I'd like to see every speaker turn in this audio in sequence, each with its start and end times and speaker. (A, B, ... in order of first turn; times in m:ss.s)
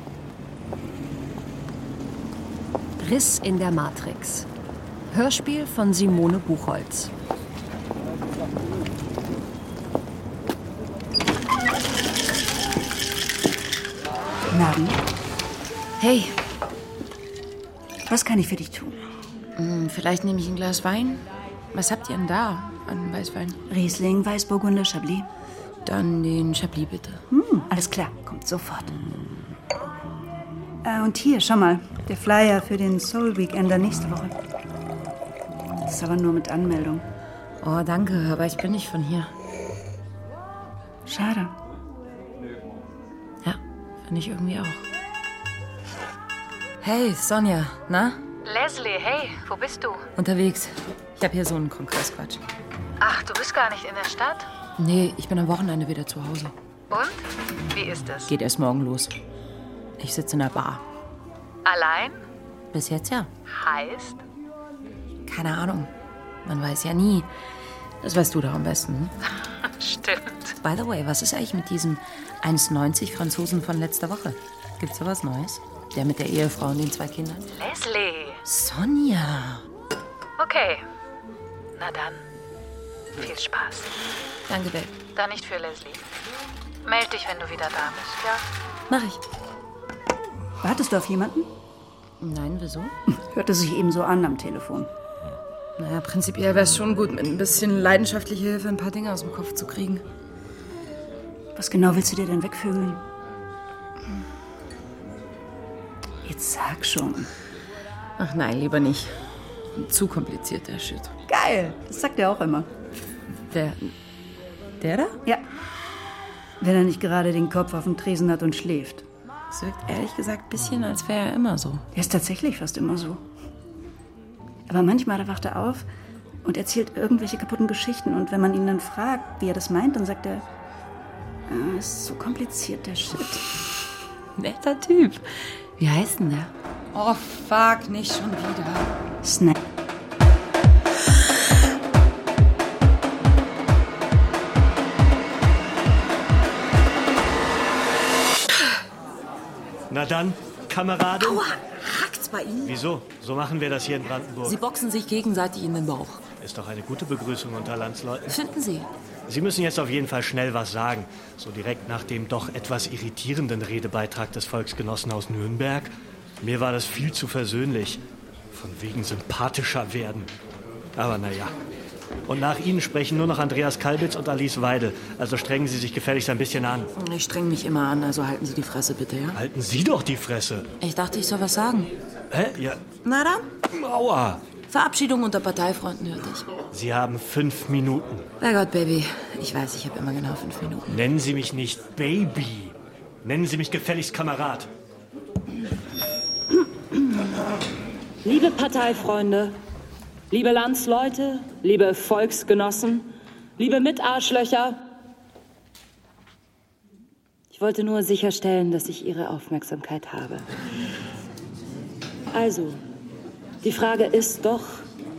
0:03.0-0:04.5 A
0:05.1-0:07.1 A
0:14.5-0:15.0 B
0:16.0-0:16.4 C
0:18.1-0:19.0 B
0:19.6-0:23.6 C
0:23.7-0:25.3 B
0:25.8-0:27.2 C
0:27.3-0:29.0 B
0:30.8-0:34.3 B
0:35.9-0:37.0 B
0:37.6-0:39.3 C
0:41.1-0:41.5 B
0:43.4-0:44.8 C
0:46.8-0:48.2 C
0:48.4-0:50.0 D
0:50.2-0:52.4 C
0:53.0-0:54.5 D
0:54.8-0:56.5 C
0:56.9-0:58.3 D
0:58.3-0:59.1 C
1:00.0-1:00.8 C
1:01.6-1:02.2 D
1:02.7-1:03.3 C
1:03.5-1:04.2 D
1:05.3-1:05.9 C
1:06.4-1:07.3 C
1:08.0-1:09.1 C
1:09.8-1:10.4 D
1:10.6-1:17.5 C
1:17.5-1:18.4 D
1:18.4-1:19.6 C
1:20.4-1:20.8 D
1:21.8-1:22.2 D
1:23.2-1:23.9 D
1:24.5-1:25.1 C
1:25.1-1:26.0 D
1:26.8-1:28.4 D
1:28.9-1:29.2 C
1:30.6-1:31.5 B
1:32.2-1:32.9 C
1:33.3-1:34.9 B
1:35.8-1:40.0 C
1:41.6-1:43.0 B
1:46.2-1:47.3 B
1:48.2-1:49.1 C
1:49.8-1:51.1 C
1:51.3-1:52.7 B
1:53.5-1:53.9 C
1:54.8-1:55.2 C
1:56.6-1:59.0 B
1:59.5-2:01.8 C
2:02.0-2:03.2 B
2:04.7-2:05.9 B
2:06.4-2:10.4 B
2:11.5-2:13.4 B
2:14.4-2:15.3 C
2:15.8-2:18.9 C
2:19.2-2:19.6 B
2:29.9-2:31.4 E
2:31.2-2:32.8 C
2:32.6-2:34.6 E
2:34.4-2:36.2 C
2:36.4-2:38.3 E
2:38.3-2:38.9 C
2:39.3-2:48.0 E
2:48.5-2:50.3 E
2:51.0-2:51.6 E
2:52.3-2:56.9 E
2:57.0-2:59.4 C
2:59.3-3:00.7 E
3:00.8-3:01.9 C
3:02.3-3:02.8 E
3:03.0-3:03.5 C
3:03.7-3:04.4 E
3:04.7-3:06.5 C
3:06.7-3:08.3 E
3:08.4-3:11.0 C
3:10.9-3:14.7 E
3:18.2-3:19.6 F
3:20.3-3:23.1 F
3:23.6-3:24.8 F
3:27.6-3:30.4 F
3:32.4-3:32.8 F
3:33.6-3:34.8 F